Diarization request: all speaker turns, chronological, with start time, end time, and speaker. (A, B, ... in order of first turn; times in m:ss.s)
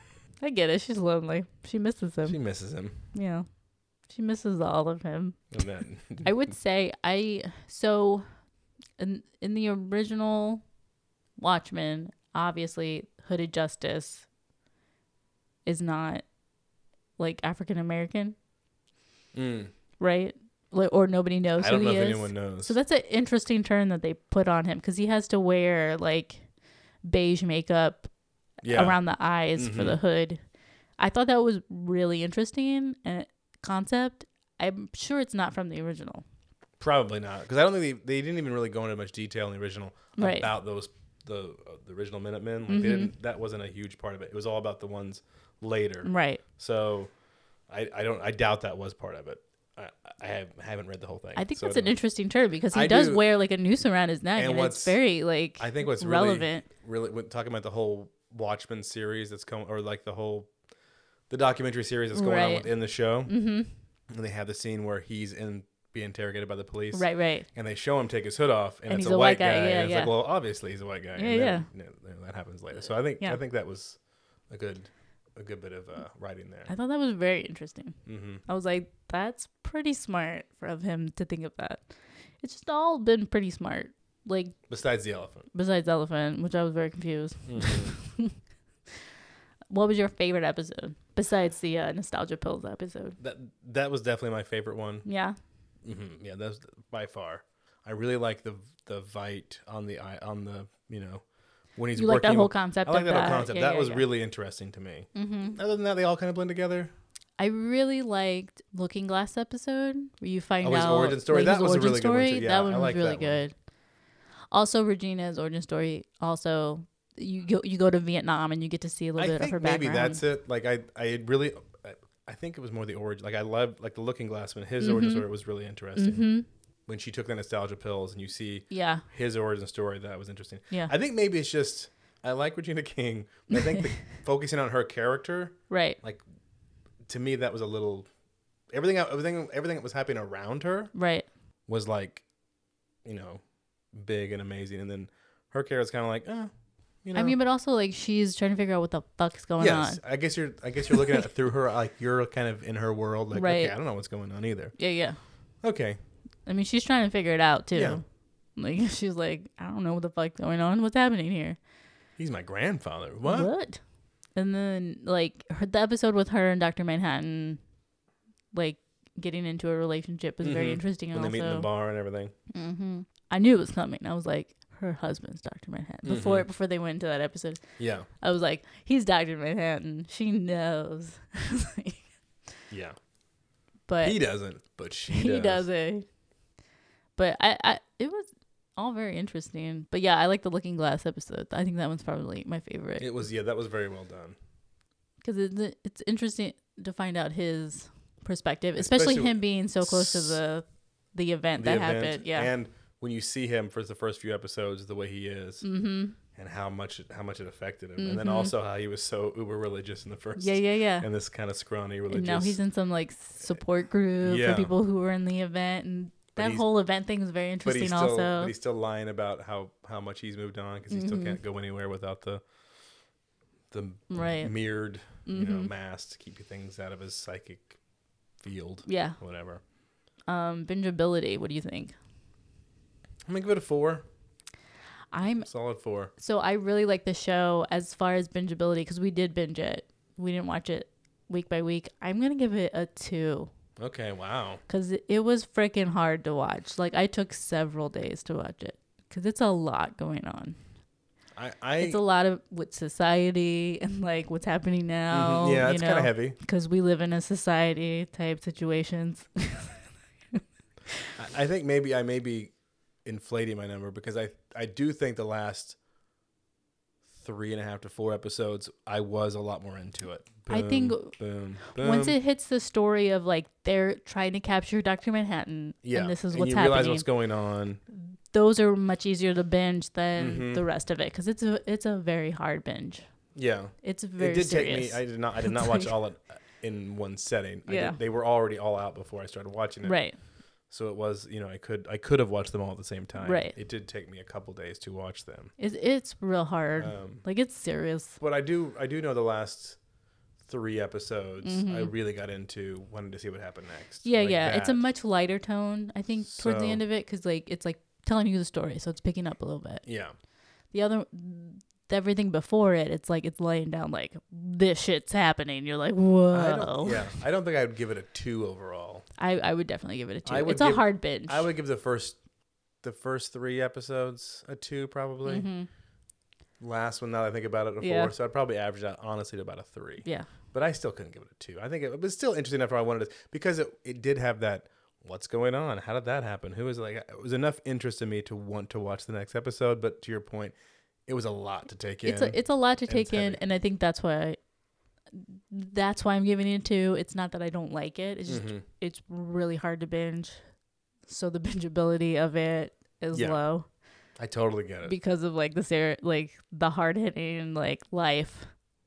0:00.4-0:02.4 A
0:02.2-0:03.0 B
0:03.1-0:03.4 A
0:04.1-0:05.4 A
0:05.5-0:06.3 B
0:06.2-0:08.3 A
0:09.0-0:10.6 A
0:11.4-0:14.3 A
0:15.6-0:16.2 A
0:17.2-0:18.3 A
0:19.3-0:19.7 B
0:20.0-0:26.5 A
0:21.6-0:22.8 B
0:27.0-0:28.1 A
0:28.6-0:30.0 B
0:28.7-0:30.4 A
0:31.0-0:36.2 A
0:36.8-0:47.1 B
0:40.2-0:40.5 A
0:42.7-0:43.1 A
0:46.0-0:46.4 A
0:47.7-0:51.9 B
0:51.4-0:56.6 A
0:52.7-0:53.2 B
0:54.4-0:55.0 B
0:55.6-1:00.5 B
1:01.3-1:03.3 B
1:02.1-1:02.7 A
1:03.2-1:03.7 A
1:04.1-1:16.7 B
1:06.9-1:07.5 A
1:08.9-1:10.1 A
1:11.1-1:11.7 A
1:16.7-1:24.6 A
1:18.0-1:18.4 B
1:24.7-1:25.5 B
1:25.5-1:28.4 A
1:27.5-1:27.9 B
1:29.7-1:33.2 A
1:33.2-1:35.0 B
1:35.0-1:35.3 A
1:35.8-1:41.2 B
1:41.7-1:46.9 B
1:41.9-1:44.0 A
1:45.1-1:45.6 A
1:47.4-1:53.6 A
1:50.6-1:53.4 B
1:54.5-2:00.2 A
1:59.2-2:06.3 B
2:04.8-2:05.2 A
2:06.0-2:06.4 A
2:06.9-2:16.2 B
2:08.7-2:09.0 A
2:15.7-2:16.0 A
2:17.0-2:18.1 B
2:18.7-2:20.9 B
2:20.9-2:21.3 A
2:21.7-2:22.2 B
2:23.0-2:23.4 B
2:23.9-2:26.5 B
2:27.0-2:27.4 B
2:27.1-2:30.0 A
2:29.6-2:34.7 B
2:33.3-2:33.7 A
2:34.8-2:35.2 A
2:35.6-2:36.0 B
2:36.4-2:38.0 A
2:37.7-2:38.0 B
2:38.6-2:41.6 A
2:42.2-2:43.5 B
2:43.2-2:43.8 A
2:44.3-2:47.6 A
2:48.5-2:51.7 A
2:50.4-2:52.3 B
2:52.5-2:57.6 A
2:56.0-2:56.5 B
2:57.8-2:58.1 B
2:58.2-3:02.0 A
3:02.7-3:03.0 B
3:03.9-3:04.2 A
3:04.0-3:05.7 B
3:05.1-3:06.0 A
3:07.2-3:13.1 A
3:13.0-3:14.4 B
3:15.2-3:22.5 A
3:18.8-3:20.4 B
3:21.6-3:25.6 B
3:25.6-3:26.2 A
3:26.3-3:32.6 B
3:28.0-3:28.5 A
3:30.4-3:31.1 A
3:32.1-3:38.5 A
3:34.2-3:34.7 B
3:36.4-3:36.6 B
3:37.6-3:42.4 B
3:40.9-3:41.4 A
3:43.7-3:47.8 B
3:44.1-3:44.5 A
3:45.1-3:45.7 A
3:48.4-3:49.6 B
3:48.8-3:49.2 A
3:50.3-3:51.9 A
3:53.2-3:54.0 B
3:55.1-3:55.5 A
3:55.4-3:56.1 B
3:56.2-4:03.5 A
4:03.8-4:04.6 B
4:04.7-4:10.6 A
4:11.4-4:12.0 B
4:11.8-4:19.7 A
4:15.1-4:16.4 B
4:21.2-4:22.5 B
4:23.0-4:25.8 B
4:27.1-4:32.2 B
4:30.5-4:37.0 A
4:35.8-4:37.8 B
4:38.1-4:43.1 A
4:40.2-4:40.6 B
4:43.3-4:50.0 B
4:43.8-4:45.9 A
4:47.7-4:48.0 A
4:49.8-4:50.2 A
4:50.7-4:55.5 B
4:53.2-4:53.5 A
4:55.6-4:58.2 A
4:56.8-4:57.2 B
4:58.2-4:59.8 B
5:00.4-5:04.8 B
5:01.4-5:01.9 A
5:04.0-5:09.8 A
5:06.2-5:06.8 B
5:09.8-5:10.1 B
5:10.7-5:17.2 A
5:16.3-5:19.0 B
5:19.2-5:21.5 A
5:20.2-5:22.2 B
5:22.8-5:25.4 B
5:25.2-5:25.7 A
5:26.6-5:40.5 B
5:27.8-5:28.1 A
5:41.1-5:43.4 B
5:42.0-5:44.4 A
5:45.1-5:50.4 A
5:48.3-5:48.6 B
5:51.0-5:53.6 A
5:53.1-5:53.4 B
5:54.2-5:54.9 B
5:54.8-5:58.5 A